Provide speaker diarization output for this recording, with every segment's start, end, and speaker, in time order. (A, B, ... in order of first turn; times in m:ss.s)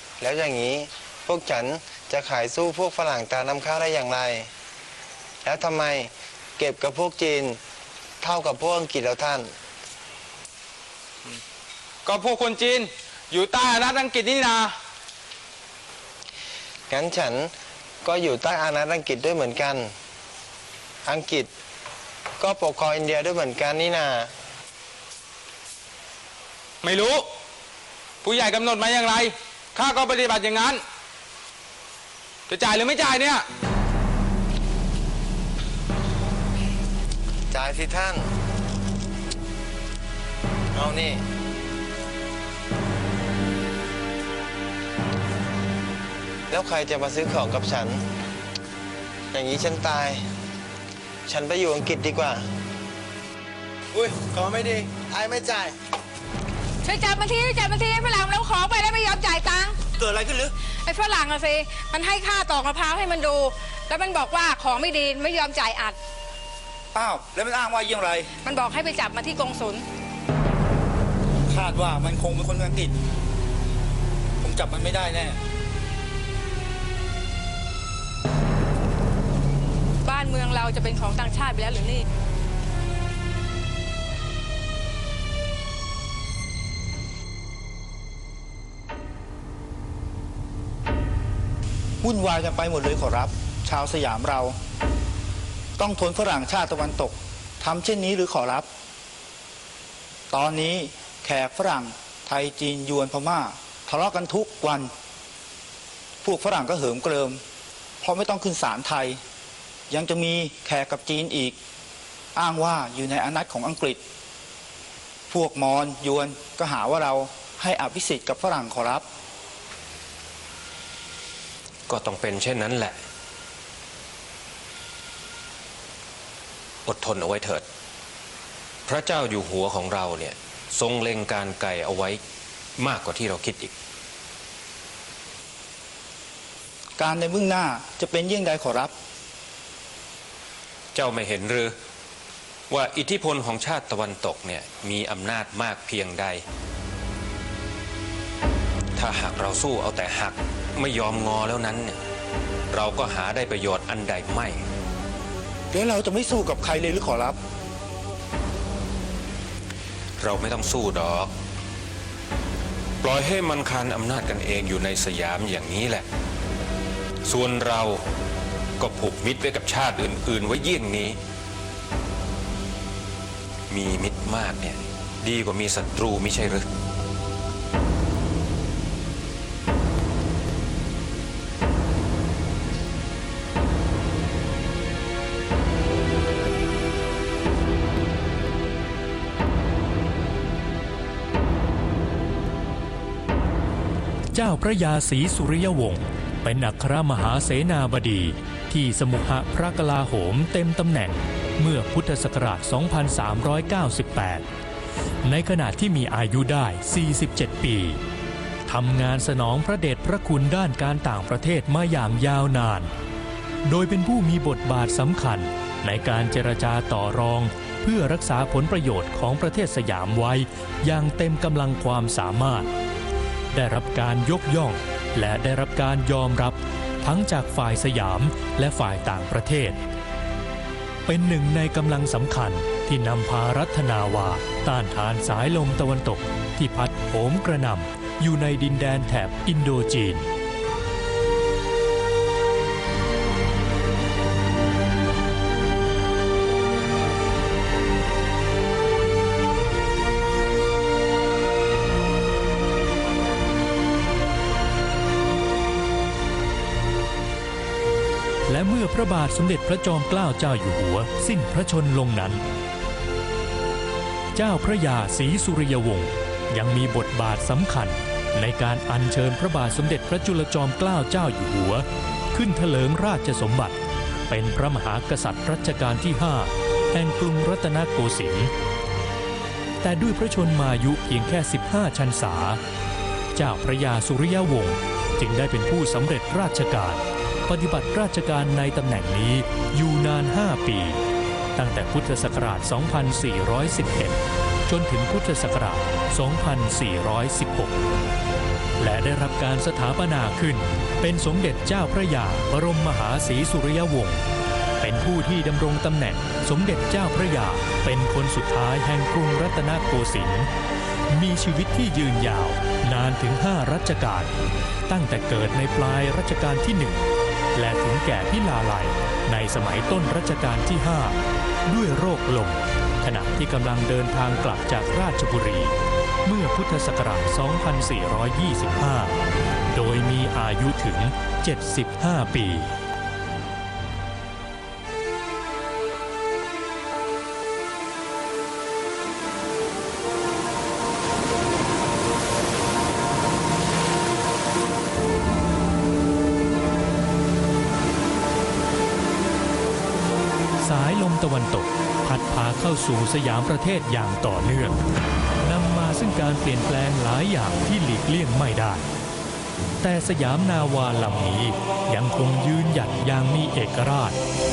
0:00.2-0:04.5 A
0:05.4-0:07.6 A
0:08.2-0:09.5 A
0:12.0-0:14.7 B
0:16.9-0:19.9 A
0:21.0-0:21.5 A
0:22.4-0:24.3 A
0:26.8-0:27.3 B
0:28.2-0:30.8 B
0:32.5-0:33.4 B
0:37.5-0:38.3 A
0:40.8-0:41.2 A
0:46.5-0:48.0 A
0:49.3-0:50.2 A
0:51.3-0:52.5 A
0:53.9-0:55.8 A
0:56.8-0:59.8 C
1:00.0-1:00.5 D
1:00.9-1:06.0 C
1:06.9-1:08.3 D
1:08.4-1:09.8 C
1:11.5-1:13.0 D
1:14.4-1:15.4 D
1:20.0-1:22.1 C
1:32.0-1:34.6 D
1:35.8-1:38.7 D
1:40.3-1:44.9 D
1:46.2-1:47.4 D
1:48.0-1:49.2 D
1:49.9-1:51.6 D
1:52.4-1:54.0 D
1:55.3-1:59.0 D
2:01.9-2:03.0 E
2:06.9-2:07.7 E
2:08.9-2:12.2 E
2:12.8-2:13.7 E
2:17.0-2:18.9 D
2:21.0-2:21.8 E
2:22.7-2:26.4 E
2:29.0-2:32.0 E
2:32.7-2:34.6 E
2:35.7-2:37.4 D
2:40.2-2:41.3 E
2:43.0-2:46.1 E
2:47.2-2:48.0 E
2:48.8-2:51.2 E
2:53.7-2:56.7 E
3:14.3-3:24.4 F
3:25.2-3:28.0 F
3:28.7-3:32.9 F
3:33.7-3:42.7 F
3:43.5-3:49.8 F
3:51.1-4:00.3 F
4:18.5-4:22.4 F
4:24.4-4:33.8 F
4:34.3-4:38.5 F
4:39.8-4:42.6 F
4:43.4-4:51.0 F
4:51.6-4:57.8 F
4:58.8-5:04.2 F
5:04.8-5:10.5 F
5:11.1-5:14.3 F
5:14.9-5:17.0 F
5:17.6-5:25.8 F
5:26.3-5:32.7 F
5:50.6-5:54.8 F
5:55.4-5:58.9 F
5:59.8-6:04.2 F